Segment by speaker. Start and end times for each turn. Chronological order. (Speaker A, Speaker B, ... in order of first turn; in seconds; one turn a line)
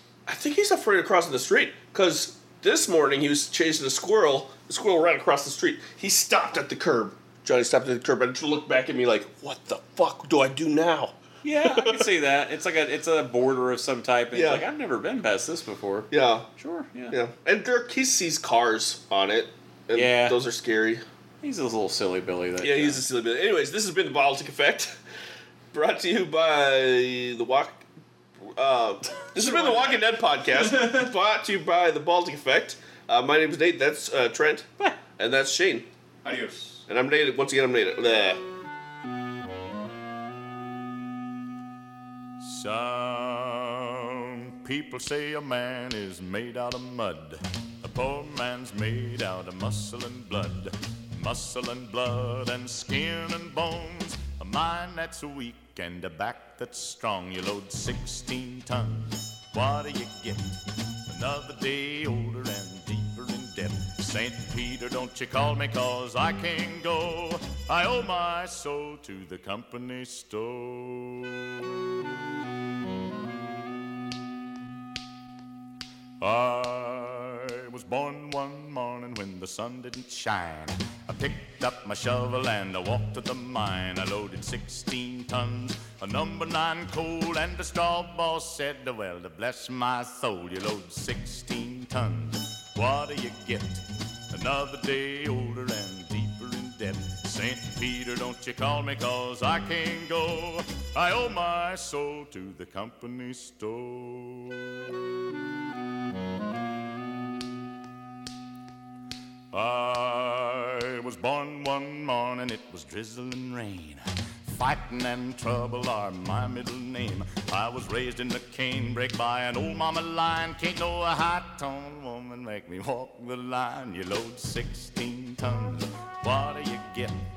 Speaker A: 0.3-12.1
Speaker B: 11.4-17.1
Speaker A: 14.3-14.6
Speaker A: 16.1-16.5
Speaker A: 17.1-21.0
Speaker B: 19.9-20.4
Speaker B: 21.4-23.0
Speaker A: 22.6-25.0
Speaker A: 25.7-27.8
Speaker A: 28.4-35.9
Speaker C: 29.3-31.1
Speaker C: 36.2-36.8
Speaker A: 36.9-38.4
Speaker D: 42.4-71.7
Speaker D: 76.2-104.8
Speaker D: 109.5-127.2